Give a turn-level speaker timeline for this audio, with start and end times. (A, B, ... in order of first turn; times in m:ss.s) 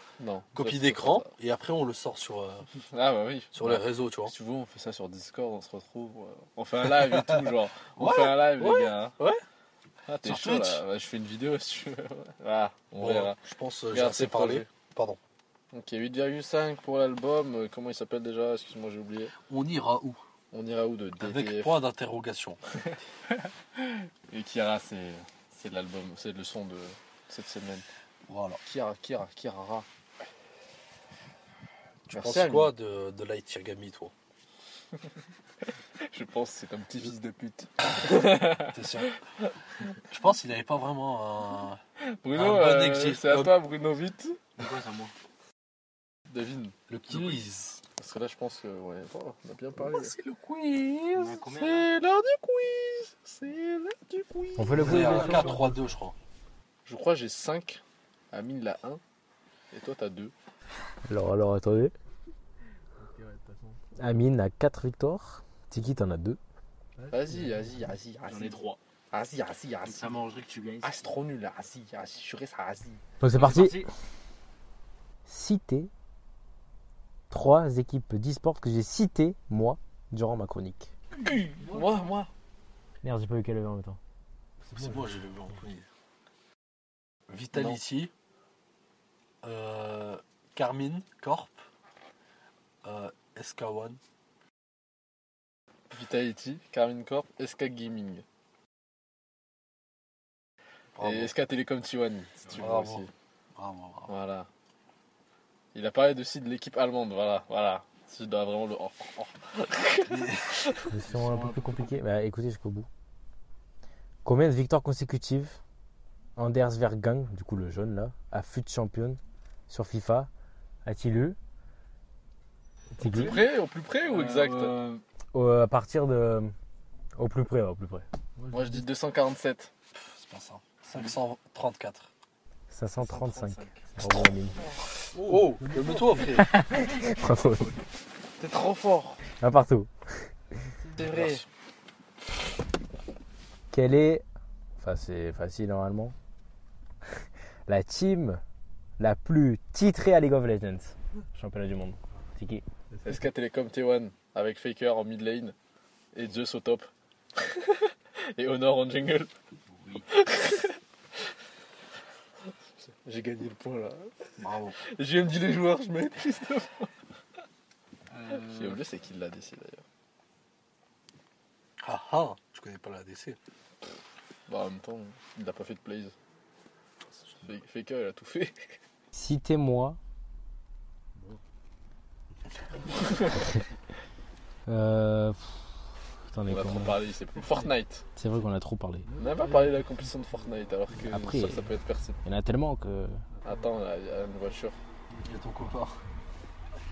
0:00.2-0:01.3 A
0:00.5-0:02.7 B
0:02.8-0:09.4 A
0:03.5-0:04.3 B
0:06.8-0:08.9 B
0:10.0-0:13.4 A
0:10.2-0:10.8 B
0:13.0-0:15.2 B
0:13.9-0:14.7 A
0:15.7-0:19.3 A
0:19.4-0:20.2 B
0:20.5-0:21.8 A
0:21.2-0:22.6 B
0:22.8-0:27.8 A
0:28.3-0:28.6 B
0:28.6-0:29.8 A
0:32.1-0:34.1 B
0:32.1-0:32.7 A
0:35.6-0:39.5 A
0:38.7-0:39.2 B
0:40.1-0:41.8 B
0:42.0-0:44.4 A
0:42.3-0:43.6 B
0:44.6-0:45.1 C
0:46.3-0:47.4 A
0:46.9-0:47.8 B
0:48.0-0:50.2 A
0:49.8-0:51.4 B
0:51.1-0:51.9 C
0:51.2-0:55.4 A
0:54.6-0:55.6 D
0:54.8-0:55.8 E
0:54.8-0:56.2 B
0:55.0-0:55.6 C
0:56.8-0:59.0 A
0:59.7-1:00.3 A
1:01.0-1:01.9 D
1:03.0-1:03.8 E
1:04.0-1:06.4 D
1:07.0-1:08.0 E
1:07.1-1:10.1 A
1:08.2-1:08.8 C
1:09.8-1:10.9 C
1:10.8-1:13.0 A
1:13.2-1:13.8 D
1:13.2-1:14.0 C
1:15.3-1:15.9 D
1:17.3-1:20.9 D
1:21.2-1:22.3 A
1:21.6-1:22.0 E
1:23.0-1:24.0 D
1:24.6-1:25.6 E
1:24.7-1:25.8 B
1:27.3-1:28.1 B
1:27.5-1:27.8 A
1:29.4-1:31.6 B
1:32.8-1:34.0 B
1:35.9-1:38.2 A
1:41.0-1:41.3 B
1:41.0-1:43.1 A
1:42.5-1:44.1 B
1:44.1-1:44.5 A
1:45.7-1:51.9 A
1:50.1-1:50.6 B
1:50.9-1:52.9 D
1:54.2-1:55.6 D
1:56.4-2:00.3 D
2:00.8-2:01.4 D
2:03.0-2:03.4 D
2:03.0-2:05.0 A
2:04.0-2:04.8 C
2:05.3-2:06.5 D
2:07.2-2:08.0 D
2:08.4-2:08.9 E
2:08.5-2:09.7 A
2:09.9-2:12.1 B
2:12.7-2:14.6 D
2:13.0-2:14.8 A
2:15.1-2:16.5 B
2:15.1-2:16.5 E
2:16.3-2:17.8 D
2:18.4-2:19.2 A
2:19.4-2:20.3 D
2:20.5-2:21.1 E
2:21.0-2:21.4 A
2:21.0-2:21.4 B
2:23.7-2:24.2 D
2:24.8-2:26.1 D
2:27.7-2:28.4 D
2:29.0-2:32.6 D
2:32.9-2:33.3 E
2:33.0-2:35.5 A
2:36.1-2:39.3 A
2:39.7-2:40.1 C
2:40.1-2:41.3 A
2:42.8-2:46.9 A
2:44.4-2:44.8 B
2:48.1-2:48.8 C
2:48.3-2:49.8 A
2:51.8-2:53.4 B
2:54.5-2:56.1 A
2:57.4-2:58.8 A
2:59.1-3:00.0 D
3:01.1-3:01.4 E
3:02.4-3:03.4 E
3:04.6-3:07.0 D
3:06.4-3:08.0 A
3:07.4-3:07.7 E
3:08.2-3:09.1 D
3:09.0-3:11.1 E
3:09.2-3:12.2 A
3:11.0-3:11.7 D
3:12.2-3:13.2 D
3:13.3-3:13.8 E
3:13.4-3:14.8 A
3:15.1-3:15.7 E
3:15.2-3:16.0 B